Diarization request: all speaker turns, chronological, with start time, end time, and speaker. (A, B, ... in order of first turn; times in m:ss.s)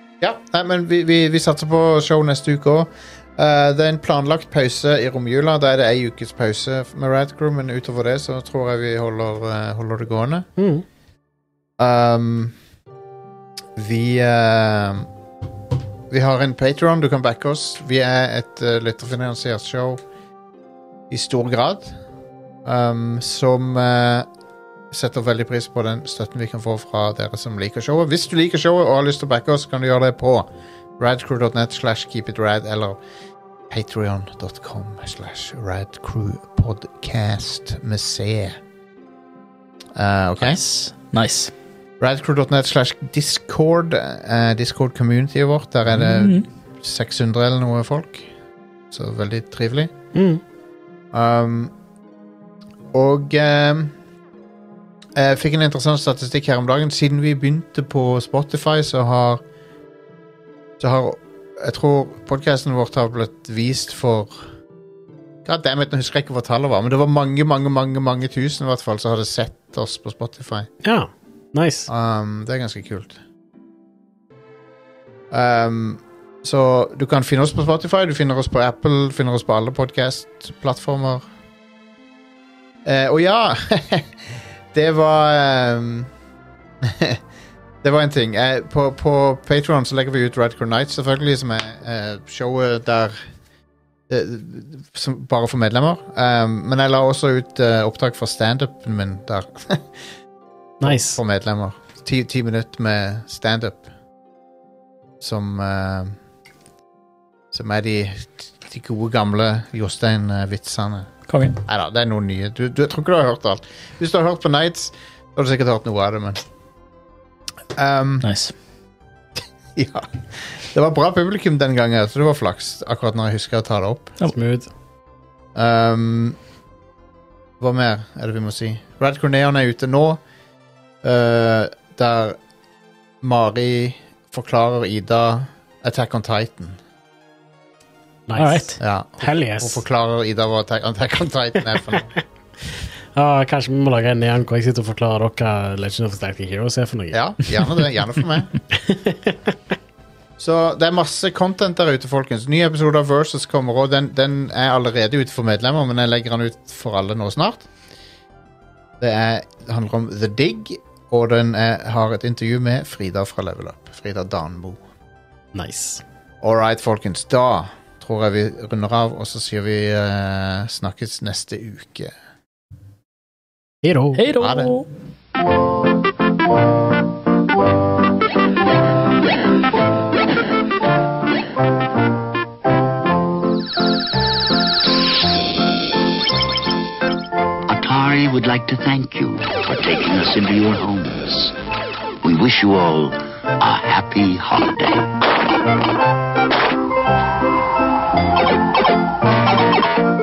0:00.2-0:10.5 A
0:10.6-0:10.8 B
0:11.8-0:12.5 A
0:13.8-0:15.1 A
0:16.1-0:20.0 A
0:21.1-0:21.9 A
0:22.6-0:24.3 A
0:24.9-0:33.0 A
0:33.7-0:38.6 A
0:39.9-0:40.6 A
0:40.4-0:41.5 C
0:42.0-0:48.3 A
0:46.0-0:46.4 C
0:48.9-0:49.9 A
0:50.1-0:50.4 B
0:51.1-0:51.7 A
0:52.9-0:53.9 A
0:55.1-0:59.4 A
1:00.8-1:04.4 A
1:05.4-1:10.7 A
1:10.8-1:11.9 B
1:11.9-1:13.2 A
1:15.3-1:21.2 A
1:22.8-1:26.1 A
1:26.8-1:27.2 A
1:27.8-1:33.2 A
1:34.1-1:39.9 A
1:40.8-1:41.2 B
1:40.8-1:43.8 A
1:45.2-1:46.2 A
1:47.5-1:51.1 A
1:51.3-1:51.6 C
1:51.6-1:56.4 A
1:57.7-1:58.3 A
1:58.2-1:58.5 C
1:59.7-2:04.2 A
2:04.2-2:04.7 B
2:05.5-2:06.4 A
2:07.6-2:10.2 A
2:11.0-2:12.4 A
2:13.2-2:16.8 A
2:18.3-2:19.8 B
2:18.4-2:18.8 C
2:18.8-2:22.1 A
2:23.1-2:27.2 B
2:27.1-2:28.5 A
2:28.7-2:29.6 B
2:30.4-2:37.7 A
2:39.0-2:44.8 A
2:45.5-2:46.0 B
2:46.4-2:52.1 A
2:53.8-2:54.2 B
2:54.2-2:54.9 C
2:54.4-2:54.7 A
3:07.7-3:11.5 D
3:12.2-3:15.1 D